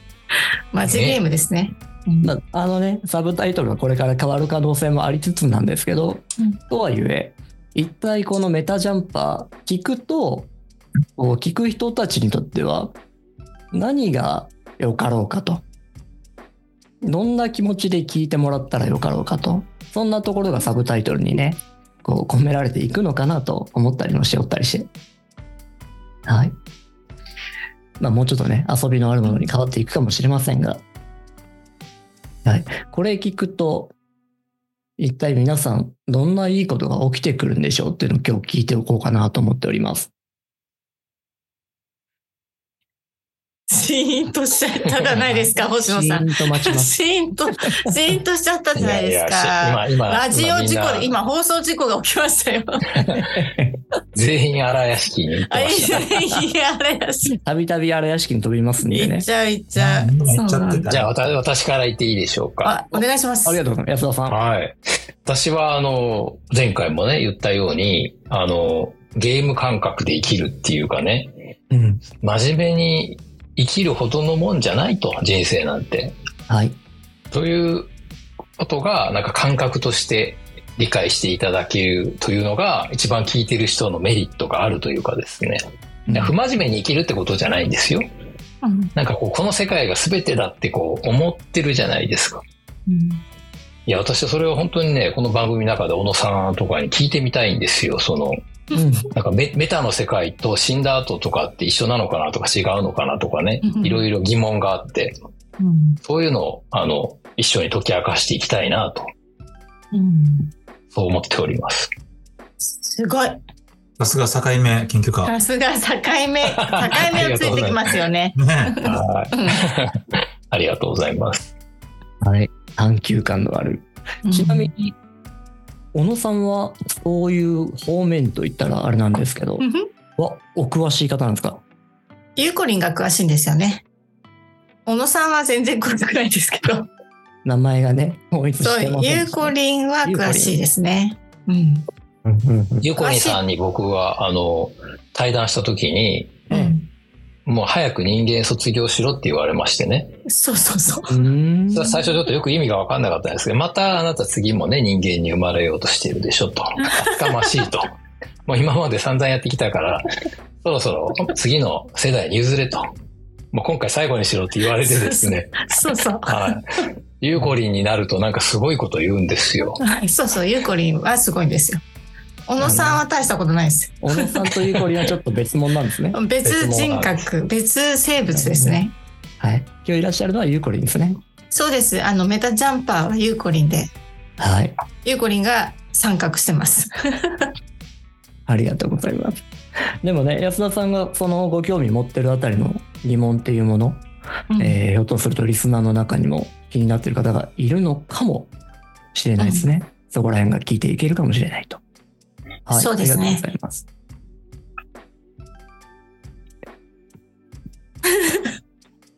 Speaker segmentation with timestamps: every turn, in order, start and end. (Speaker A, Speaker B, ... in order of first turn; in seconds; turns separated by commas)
Speaker A: 0.7-2.3, Speaker B: 0.9-1.2, Speaker C: 2.2-10.5, Speaker C: 11.2-13.0, Speaker C: 13.7-15.6, Speaker C: 17.0-24.9, Speaker C: 26.3-26.6, Speaker C: 28.0-30.8, Speaker C: 32.5-34.0, Speaker C: 35.0-40.1, Speaker A: 43.7-52.9, Speaker C: 45.3-46.9, Speaker B: 48.8-51.1, Speaker C: 53.0-53.7, Speaker B: 54.1-56.1, Speaker A: 55.5-57.4, Speaker C: 57.5-59.3, Speaker A: 58.8-60.9, Speaker D: 59.8-61.1, Speaker B: 60.9-62.8, Speaker A: 62.6-63.6, Speaker C: 63.0-64.4, Speaker B: 64.3-71.3, Speaker C: 71.7-72.0, Speaker B: 72.2-76.2, Speaker C: 76.5-76.8, Speaker B: 77.3-77.9, Speaker B: 78.6-88.1, Speaker A: 88.6-88.9, Speaker B: 89.0-92.4, Speaker A: 92.9-93.2, Speaker B: 93.9-98.4, Speaker C: 98.7-99.1, Speaker B: 99.1-105.2, Speaker A: 103.6-104.1, Speaker A: 105.6-106.0, Speaker B: 106.0-109.1, Speaker A: 109.9-110.5, Speaker B: 110.9-111.9, Speaker A: 112.6-113.4, Speaker D: 114.0-115.3, Speaker A: 115.2-119.7, Speaker B: 116.5-118.0, Speaker D: 118.4-118.8, Speaker B: 118.8-121.5, Speaker C: 122.2-124.7, Speaker A: 124.2-124.9, Speaker C: 125.9-129.7, Speaker A: 129.6-129.9, Speaker C: 130.2-131.6, Speaker A: 132.4-133.8, Speaker A: 134.9-136.9, Speaker C: 137.4-140.6, Speaker A: 138.6-141.9, Speaker C: 142.2-142.9, Speaker B: 142.8-146.4, Speaker A: 143.0-143.4, Speaker A: 146.5-146.9, Speaker C: 146.5-146.8, Speaker B: 147.5-150.1, Speaker A: 150.3-151.2, Speaker C: 151.1-152.1, Speaker B: 151.7-157.9, Speaker A: 156.8-157.5, Speaker B: 158.5-160.1, Speaker B: 160.6-162.9, Speaker B: 163.5-165.7, Speaker A: 164.8-166.6, Speaker B: 166.2-169.8, Speaker A: 169.8-171.8, Speaker A: 172.5-175.1, Speaker C: 172.6-173.0, Speaker C: 174.0-176.9, Speaker A: 176.1-178.9, Speaker D: 176.5-177.1, Speaker C: 178.3-178.8, Speaker C: 179.4-181.2, Speaker A: 181.5-183.9, Speaker C: 184.4-184.8, Speaker A: 185.0-187.5, Speaker C: 188.5-189.4, Speaker C: 190.0-194.1, Speaker A: 194.5-194.8, Speaker C: 194.6-198.5, Speaker C: 199.1-201.8, Speaker A: 199.4-199.7, Speaker C: 202.7-203.9, Speaker A: 202.7-203.4, Speaker A: 208.1-208.5